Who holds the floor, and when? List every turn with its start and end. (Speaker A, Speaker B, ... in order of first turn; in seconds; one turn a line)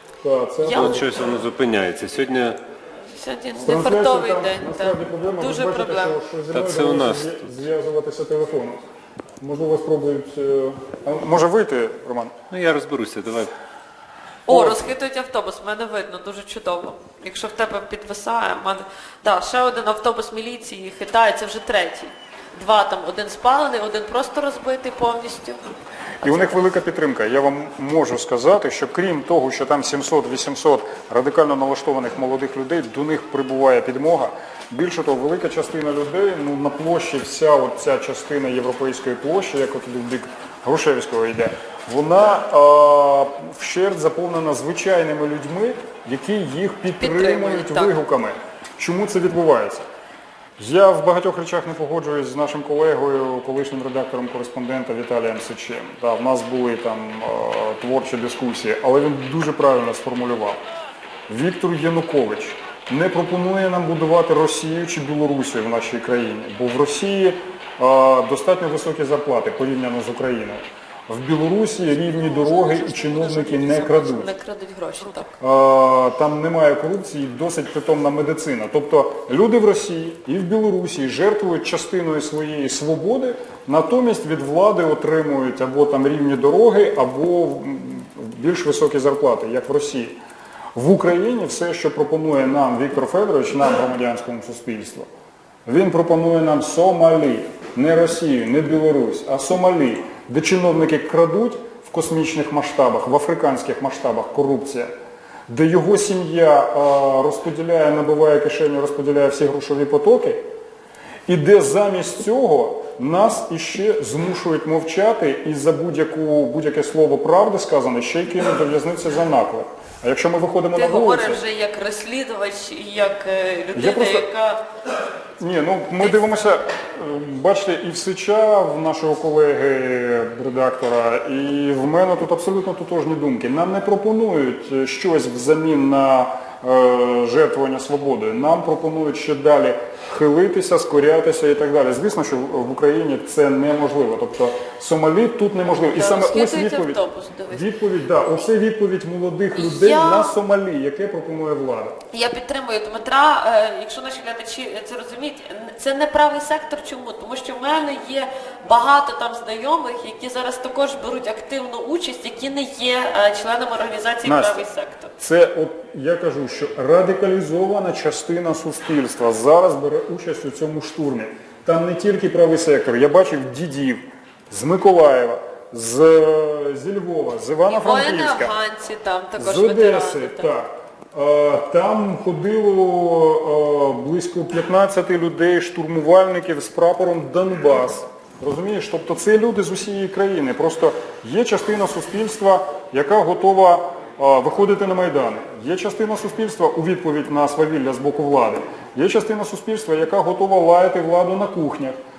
Speaker A: 0.2-1.0
Speaker B: 0.6-1.0
Speaker C: 0.7-2.6
Speaker B: 3.1-6.2
Speaker A: 3.6-8.8
Speaker C: 6.5-7.5
Speaker A: 9.4-12.3
Speaker C: 12.5-13.5
Speaker B: 14.5-25.6
Speaker A: 14.5-14.8
Speaker A: 26.2-49.9
Speaker B: 26.2-26.6
Speaker B: 47.0-48.0
Speaker A: 50.6-60.6
Speaker A: 61.3-74.3
Speaker B: 72.0-75.3
Speaker A: 75.4-90.2
Speaker A: 90.7-95.1
Speaker A: 95.7-104.9
Speaker A: 105.5-110.4
Speaker A: 111.3-121.4
Speaker B: 120.7-124.6
Speaker A: 123.7-124.2
Speaker A: 125.4-147.0
Speaker B: 145.8-147.7
Speaker A: 147.5-152.0
Speaker B: 149.5-150.3
Speaker B: 152.1-165.1
Speaker A: 164.2-164.6
Speaker A: 165.2-178.5
Speaker B: 177.7-180.5
Speaker A: 179.4-201.9